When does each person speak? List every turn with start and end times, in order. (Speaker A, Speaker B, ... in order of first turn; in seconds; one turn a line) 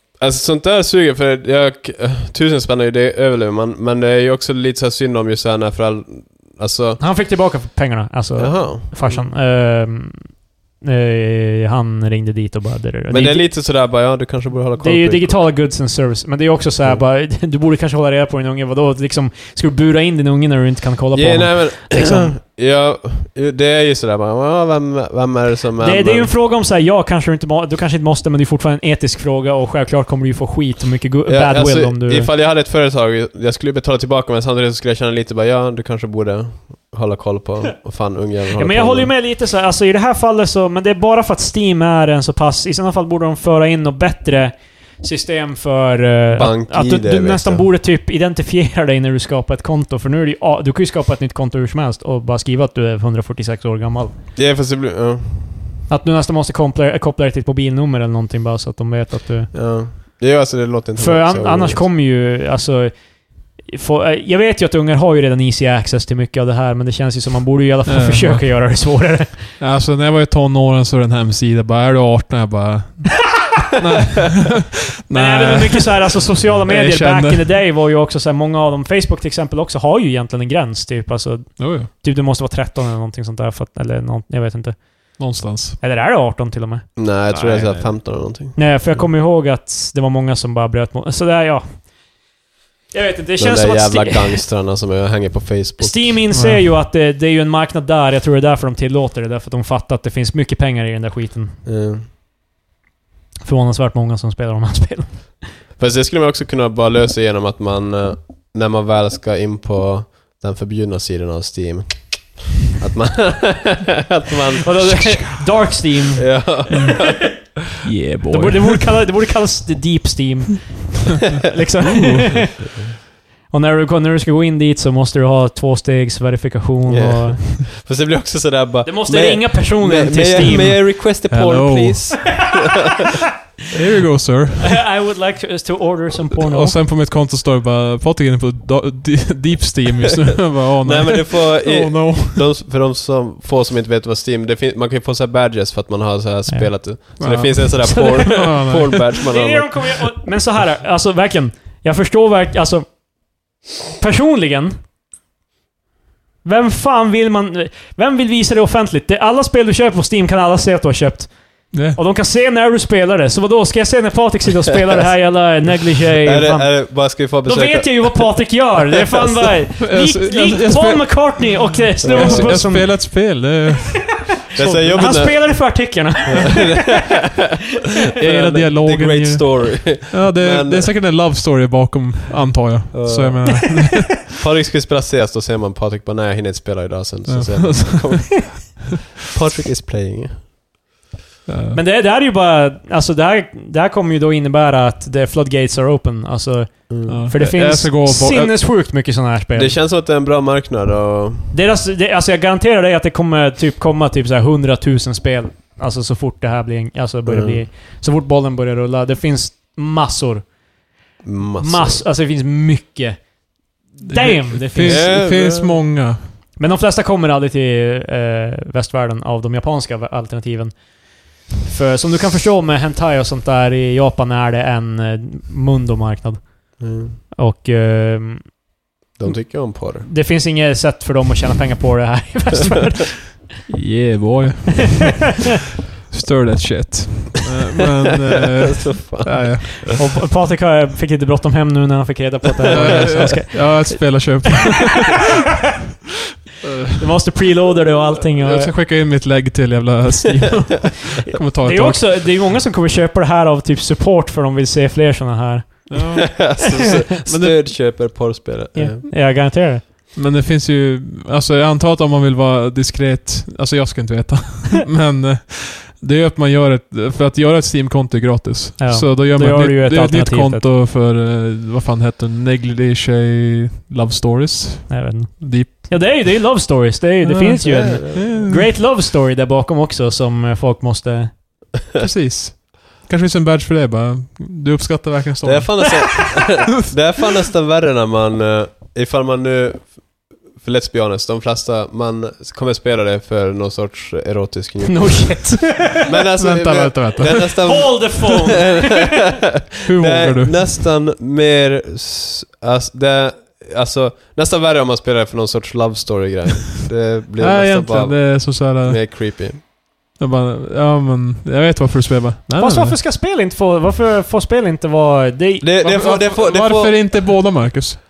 Speaker A: 0.2-7.0
Speaker B: 7.0-13.5
Speaker A: 8.3-9.3
Speaker A: 13.1-15.4
Speaker B: 14.8-22.4
Speaker A: 21.1-26.3
Speaker B: 25.8-32.3
Speaker A: 31.3-39.1
Speaker B: 38.6-54.1
Speaker A: 46.3-47.6
Speaker A: 54.3-55.7
Speaker B: 55.9-60.1
Speaker A: 59.5-61.8
Speaker B: 61.0-63.0
Speaker B: 63.5-69.5
Speaker C: 67.8-68.7
Speaker C: 69.6-77.5
Speaker B: 75.1-91.9
Speaker C: 81.6-81.9
Speaker C: 85.2-85.8
Speaker A: 87.0-89.1
Speaker B: 92.9-94.4
Speaker A: 93.4-96.1
Speaker B: 95.8-101.6
Speaker C: 96.3-96.6
Speaker A: 101.6-102.0
Speaker B: 103.4-105.5
Speaker A: 105.8-115.2
Speaker B: 114.6-117.3
Speaker C: 114.9-115.7
Speaker A: 116.2-117.5
Speaker C: 116.7-117.2
Speaker C: 117.8-118.9
Speaker B: 118.3-122.6
Speaker C: 121.8-122.5
Speaker B: 123.5-127.5
Speaker A: 126.9-133.0
Speaker B: 128.8-130.8
Speaker C: 130.7-132.3
Speaker C: 133.7-134.8
Speaker B: 134.6-136.8
Speaker C: 136.3-142.5
Speaker A: 140.8-150.0
Speaker B: 146.5-147.0
Speaker C: 147.2-148.9
Speaker B: 147.7-154.7
Speaker B: 156.4-173.6
Speaker C: 161.7-162.0
Speaker A: 166.2-169.5
Speaker C: 169.8-174.2
Speaker A: 172.0-172.7
Speaker B: 174.5-177.0
Speaker A: 174.5-180.9
Speaker C: 178.2-184.3
Speaker A: 182.9-190.4
Speaker C: 187.3-188.4
Speaker C: 191.4-191.8
Speaker B: 191.7-199.8
Speaker A: 196.9-197.2
Speaker C: 197.1-198.6
Speaker A: 199.5-201.5
Speaker B: 201.5-210.6
Speaker A: 207.2-207.6
Speaker A: 211.2-212.0
Speaker B: 211.6-215.3
Speaker C: 214.0-216.3
Speaker A: 214.8-215.8
Speaker B: 216.6-228.6
Speaker A: 226.8-227.2
Speaker A: 229.2-230.1
Speaker B: 229.2-233.5
Speaker C: 233.7-235.4
Speaker C: 236.0-239.8
Speaker A: 238.5-239.9
Speaker B: 239.9-244.3
Speaker A: 242.7-243.2
Speaker C: 242.7-245.3
Speaker C: 246.6-247.0
Speaker B: 246.9-248.7
Speaker C: 248.4-252.3
Speaker B: 251.6-256.1
Speaker C: 255.9-257.6
Speaker A: 256.3-259.0
Speaker B: 258.7-259.8
Speaker C: 260.1-276.5
Speaker B: 268.8-270.6
Speaker B: 274.9-281.4
Speaker C: 277.2-278.7
Speaker A: 277.6-278.5
Speaker C: 281.9-286.0
Speaker A: 285.4-309.6
Speaker B: 294.8-296.0
Speaker C: 296.4-297.4
Speaker B: 297.3-299.2
Speaker C: 299.8-300.8
Speaker C: 307.4-309.0
Speaker C: 310.2-313.0
Speaker B: 312.6-315.7
Speaker A: 315.6-317.3
Speaker C: 315.8-318.0